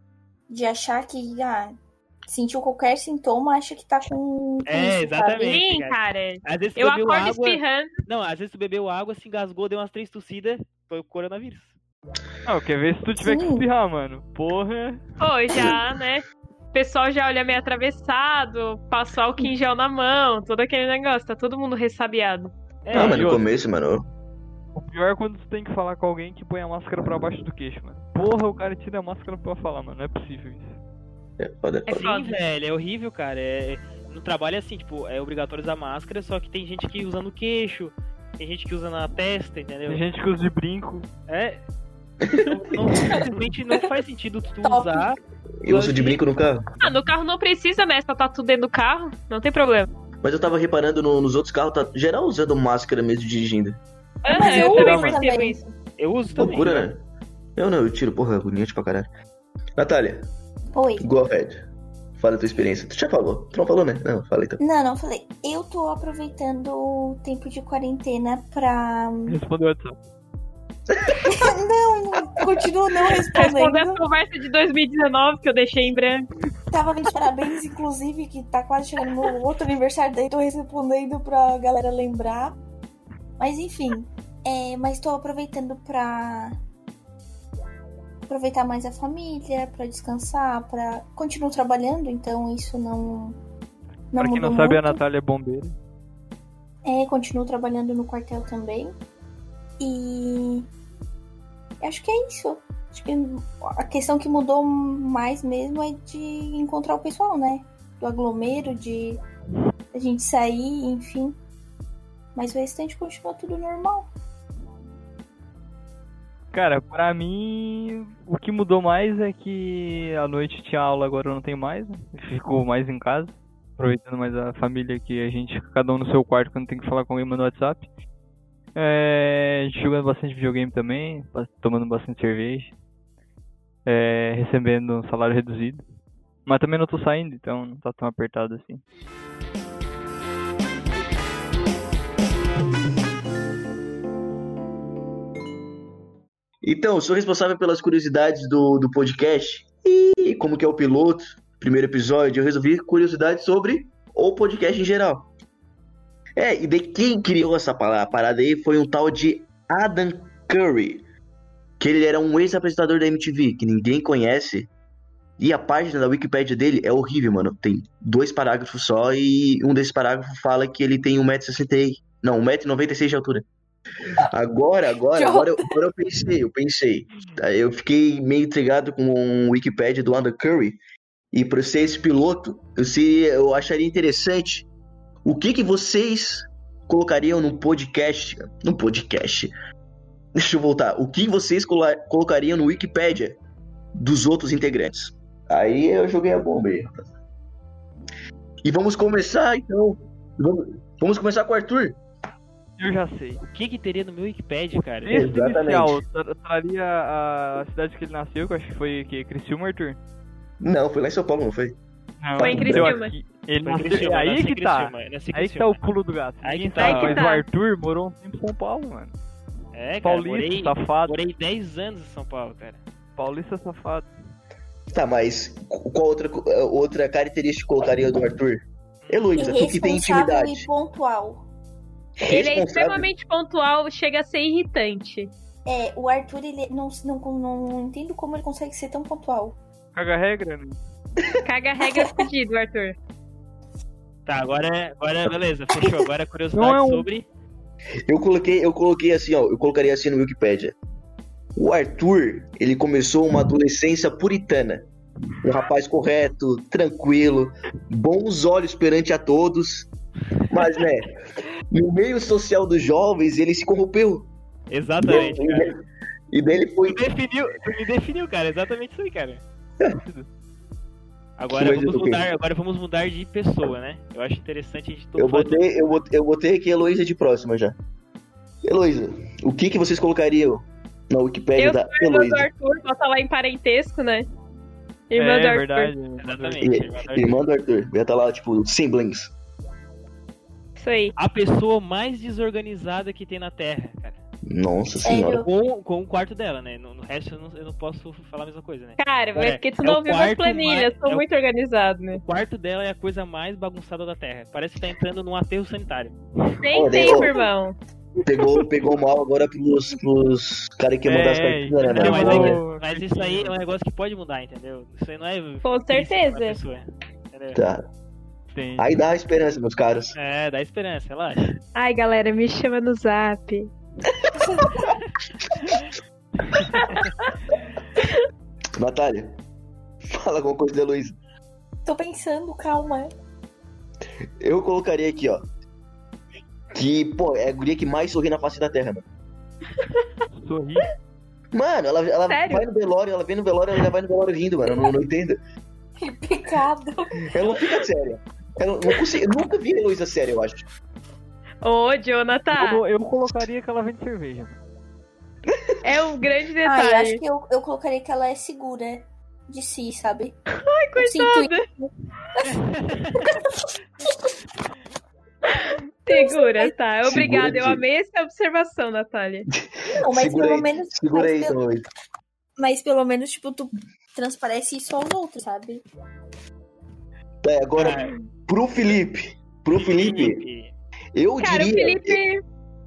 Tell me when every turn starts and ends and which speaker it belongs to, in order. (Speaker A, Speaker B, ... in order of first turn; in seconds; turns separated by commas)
Speaker A: 0.5-5.6, Speaker B: 4.7-11.8, Speaker C: 5.4-7.9, Speaker D: 12.4-15.0, Speaker A: 13.2-13.7, Speaker C: 15.2-22.5, Speaker E: 15.5-15.8, Speaker B: 22.8-23.4, Speaker E: 22.9-24.0, Speaker D: 22.9-23.4, Speaker D: 24.7-30.8, Speaker E: 31.4-31.9, Speaker C: 31.9-32.4, Speaker B: 31.9-40.0, Speaker D: 39.9-41.1, Speaker B: 41.3-41.6, Speaker B: 42.3-46.2, Speaker A: 44.6-45.1, Speaker E: 45.6-46.7, Speaker C: 46.8-49.9, Speaker E: 50.2-53.8, Speaker C: 54.2-55.7, Speaker A: 54.3-55.6, Speaker D: 54.3-55.2, Speaker B: 56.0-56.9, Speaker E: 56.4-57.0, Speaker E: 57.5-59.1, Speaker E: 59.8-60.3, Speaker A: 60.7-61.0, Speaker E: 61.0-61.6, Speaker E: 62.2-64.6, Speaker A: 64.6-69.4, Speaker D: 69.3-70.0, Speaker E: 70.9-71.3, Speaker A: 71.2-74.0, Speaker C: 73.3-76.2, Speaker A: 76.7-82.5, Speaker A: 83.4-86.6, Speaker A: 88.2-93.4, Speaker A: 94.1-95.0, Speaker D: 94.2-95.7, Speaker A: 96.8-98.9, Speaker A: 99.8-100.7, Speaker A: 101.8-109.2, Speaker A: 109.9-111.3, Speaker A: 112.3-114.1, Speaker D: 116.5-127.9, Speaker D: 128.7-132.7, Speaker D: 133.8-135.8, Speaker D: 136.4-138.8, Speaker E: 146.6-155.3, Speaker E: 156.4-161.0, Speaker E: 161.8-164.7, Speaker E: 165.4-173.4, Speaker E: 174.1-180.8, Speaker A: 175.1-175.8, Speaker E: 181.3-184.7, Speaker E: 185.2-189.5, Speaker E: 190.3-193.4, Speaker E: 193.9-197.0, Speaker E: 198.6-202.0, Speaker D: 202.8-203.4, Speaker B: 203.4-205.1, Speaker D: 204.8-210.0, Speaker E: 205.1-206.0, Speaker E: 210.6-211.8, Speaker D: 212.2-219.1, Speaker E: 212.4-212.9, Speaker C: 212.4-213.1, Speaker B: 213.6-215.8, Speaker B: 216.4-217.2, Speaker C: 216.8-217.4, Speaker B: 219.7-222.8, Speaker D: 220.0-221.2, Speaker D: 223.2-224.1, Speaker E: 224.9-230.7, Speaker B: 229.0-229.4, Speaker A: 229.3-231.4, Speaker E: 232.2-233.1, Speaker C: 232.2-235.3, Speaker A: 235.7-239.6, Speaker D: 239.9-240.8, Speaker C: 241.4-242.9, Speaker B: 244.2-247.2, Speaker D: 246.5-247.1, Speaker E: 248.1-250.8, Speaker E: 251.6-254.9, Speaker E: 255.4-259.9, Speaker E: 260.5-264.3, Speaker B: 260.5-260.8, Speaker B: 264.7-265.7, Speaker E: 265.0-267.0, Speaker B: 266.8-269.4, Speaker D: 270.0-270.3, Speaker B: 271.4-275.8, Speaker E: 271.5-272.2, Speaker E: 275.2-277.8, Speaker E: 278.6-282.5, Speaker C: 281.6-284.3, Speaker C: 285.1-285.9, Speaker D: 285.1-286.7, Speaker B: 286.2-287.4, Speaker E: 286.6-289.3, Speaker C: 290.8-291.1, Speaker B: 291.1-294.2, Speaker E: 294.5-295.4, Speaker A: 295.0-295.5, Speaker B: 295.4-301.2, Speaker C: 299.0-302.2, Speaker B: 302.1-306.2, Speaker C: 306.6-307.8, Speaker E: 306.7-307.3, Speaker D: 308.2-308.7, Speaker E: 308.2-312.6, Speaker D: 311.0-313.6, Speaker B: 311.8-317.6, Speaker C: 315.6-316.6, Speaker E: 317.5-317.8, Speaker D: 318.5-319.0, Speaker E: 318.8-320.1, Speaker B: 320.1-321.6, Speaker C: 321.7-323.7, Speaker A: 324.4-324.8, Speaker C: 326.5-327.0, Speaker E: 328.8-329.4, Speaker E: 330.1-331.1, Speaker A: 331.8-333.1, Speaker E: 334.4-335.4, Speaker E: 336.7-339.0, Speaker D: 340.3-340.9, Speaker E: 341.5-345.4, Speaker C: 342.3-342.6, Speaker A: 346.0-347.1, Speaker E: 347.3-350.6, Speaker C: 351.6-352.8, Speaker D: 352.5-354.6, Speaker E: 355.5-355.9, Speaker C: 355.8-357.2, Speaker A: 356.6-360.3, Speaker C: 360.6-361.7, Speaker A: 360.9-361.6, Speaker B: 362.5-363.2, Speaker C: 366.1-369.5, Speaker A: 366.1-366.7, Speaker E: 367.0-367.8, Speaker A: 370.0-371.6, Speaker E: 370.0-371.8, Speaker A: 372.6-375.8, Speaker E: 377.4-380.4, Speaker B: 377.8-378.1, Speaker B: 379.7-380.7, Speaker E: 381.1-382.2, Speaker C: 381.4-382.4